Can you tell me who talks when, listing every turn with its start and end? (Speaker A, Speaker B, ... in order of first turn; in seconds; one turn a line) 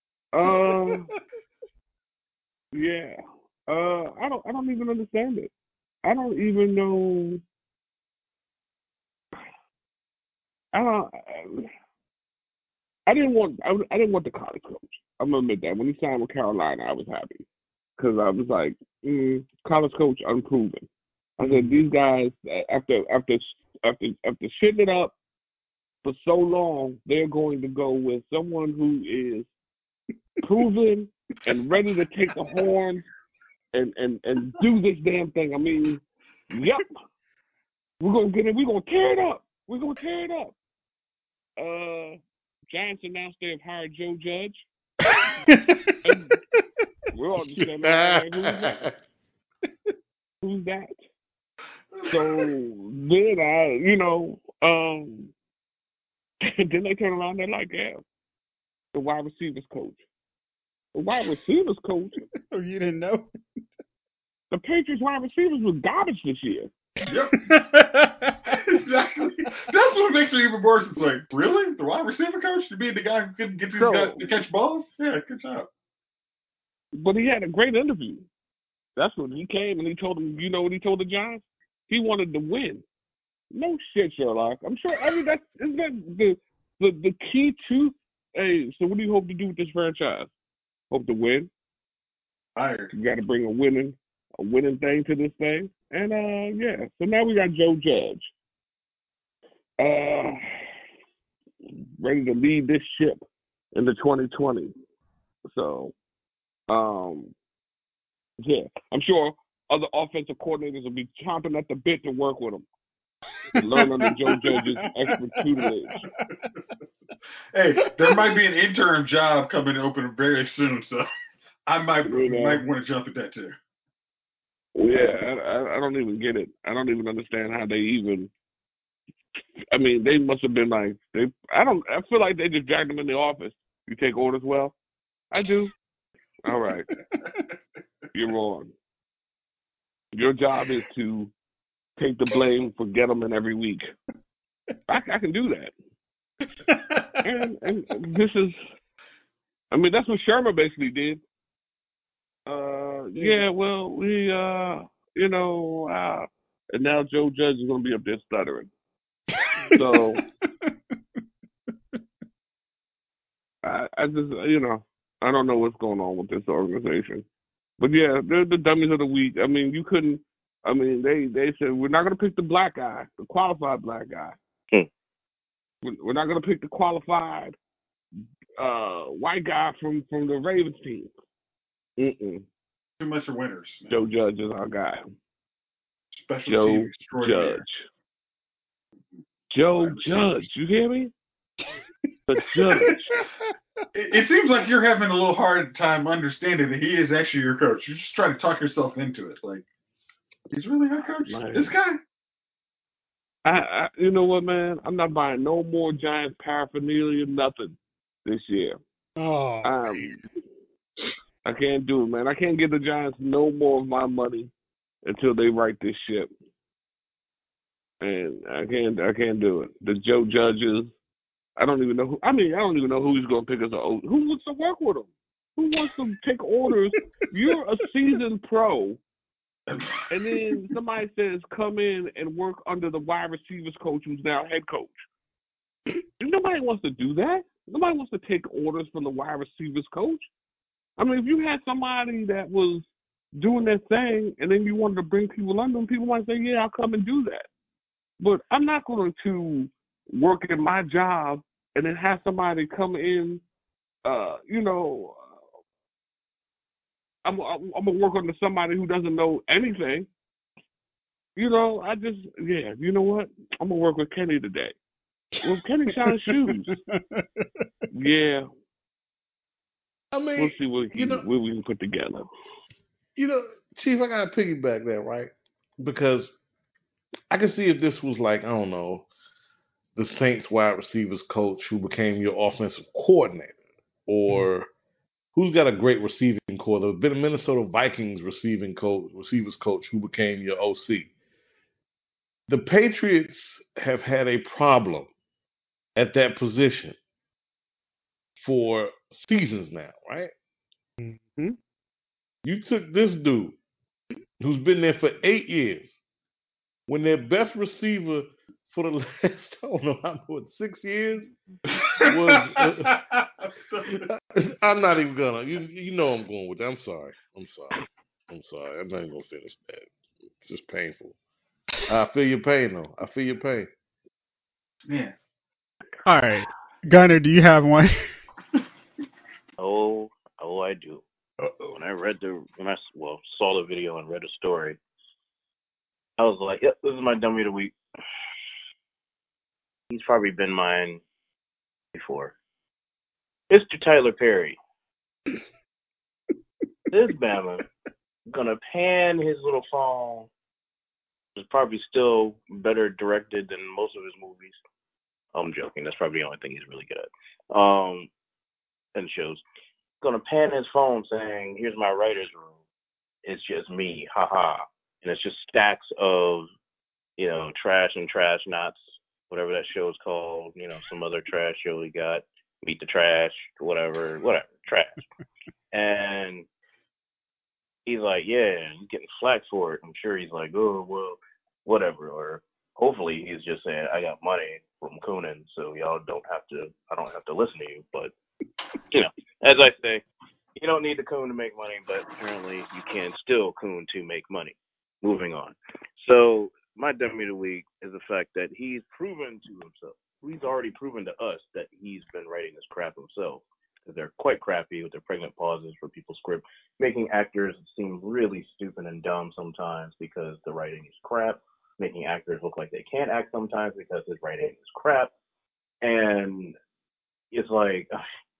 Speaker A: 0.3-1.1
Speaker A: 2.7-5.5
Speaker A: 6.0-7.4
Speaker A: 10.7-11.7
Speaker A: 13.1-17.4
Speaker A: 18.0-20.8
Speaker A: 21.4-25.1
Speaker B: 21.4-21.8
Speaker A: 26.0-29.5
Speaker A: 30.4-33.0
Speaker A: 33.7-36.9
Speaker A: 38.0-40.6
Speaker A: 41.6-44.6
Speaker B: 45.2-46.0
Speaker A: 46.0-46.4
Speaker A: 47.1-48.7
Speaker C: 47.5-48.9
Speaker A: 50.4-50.9
Speaker D: 51.9-52.4
Speaker A: 52.1-55.3
Speaker A: 56.6-58.0
Speaker A: 58.9-60.0
Speaker A: 60.9-62.2
Speaker B: 62.5-63.3
Speaker A: 64.5-66.7
Speaker D: 67.0-67.5
Speaker B: 67.3-68.6
Speaker D: 68.5-75.7
Speaker A: 73.7-74.3
Speaker A: 76.9-78.3
Speaker A: 79.0-82.8
Speaker A: 83.5-90.3
Speaker A: 90.9-91.5
Speaker D: 92.5-92.9
Speaker A: 92.9-98.3
Speaker A: 99.8-100.4
Speaker A: 102.0-104.7
Speaker A: 105.5-105.9
Speaker A: 106.7-107.3
Speaker A: 108.4-112.6
Speaker B: 113.5-116.5
Speaker A: 113.5-116.0
Speaker D: 117.5-121.1
Speaker B: 118.0-118.3
Speaker D: 121.7-123.5
Speaker A: 122.0-122.6
Speaker A: 124.8-128.3
Speaker A: 129.7-134.8
Speaker A: 135.3-135.7
Speaker A: 136.4-136.9
Speaker B: 137.1-137.4
Speaker A: 138.1-138.7
Speaker A: 140.1-141.3
Speaker A: 142.0-143.8
Speaker A: 144.9-145.7
Speaker B: 146.7-147.2
Speaker A: 147.2-148.6
Speaker A: 149.7-151.2
Speaker A: 152.4-158.7
Speaker B: 159.6-159.9
Speaker A: 159.7-160.2
Speaker A: 163.6-167.2
Speaker A: 167.8-174.4
Speaker A: 175.8-177.6
Speaker A: 178.6-181.1
Speaker A: 182.0-182.4
Speaker D: 183.0-183.9
Speaker A: 183.9-185.0
Speaker D: 186.1-187.6
Speaker A: 186.5-187.9
Speaker A: 189.5-191.1
Speaker D: 189.7-190.5
Speaker A: 192.3-193.2
Speaker B: 192.4-193.2
Speaker D: 193.9-199.6
Speaker D: 200.5-202.0
Speaker A: 201.2-201.7
Speaker A: 203.4-208.8
Speaker B: 209.2-210.1
Speaker A: 209.6-210.2
Speaker A: 211.4-214.5
Speaker A: 215.1-216.3
Speaker A: 218.0-220.9
Speaker A: 221.6-229.0
Speaker D: 229.7-230.3
Speaker A: 230.1-235.1
Speaker A: 236.2-240.2
Speaker A: 241.0-247.5
Speaker A: 248.2-253.4
Speaker A: 254.1-255.4
Speaker A: 257.2-260.1
Speaker A: 261.4-264.8
Speaker A: 265.4-266.7
Speaker B: 265.9-267.2
Speaker A: 267.9-268.4
Speaker C: 270.1-271.2
Speaker A: 270.4-272.3
Speaker C: 273.1-276.3
Speaker C: 277.3-279.1
Speaker C: 279.9-283.6
Speaker C: 284.1-284.7
Speaker C: 285.4-291.1
Speaker C: 292.5-295.1
Speaker C: 295.9-297.0
Speaker C: 298.4-300.3
Speaker B: 301.0-301.6
Speaker C: 302.4-303.6
Speaker C: 304.4-306.0
Speaker C: 306.9-311.3
Speaker D: 311.7-314.1
Speaker C: 312.0-313.0
Speaker C: 313.9-321.1
Speaker C: 321.9-323.7
Speaker D: 324.9-325.1
Speaker B: 326.1-328.1
Speaker E: 329.6-331.0
Speaker D: 331.4-331.8
Speaker E: 331.7-334.8
Speaker E: 336.2-337.7
Speaker E: 339.9-341.0
Speaker E: 341.9-342.4
Speaker E: 343.5-344.6
Speaker E: 346.9-347.6
Speaker E: 348.3-350.3
Speaker E: 351.4-354.6
Speaker E: 355.3-358.1
Speaker E: 358.9-359.4
Speaker E: 360.0-362.6
Speaker E: 363.2-366.5
Speaker E: 367.2-368.8
Speaker E: 369.3-375.0
Speaker E: 375.7-376.5
Speaker E: 377.9-388.1
Speaker E: 388.9-390.0
Speaker E: 390.6-415.1
Speaker E: 415.8-416.6
Speaker E: 417.3-418.0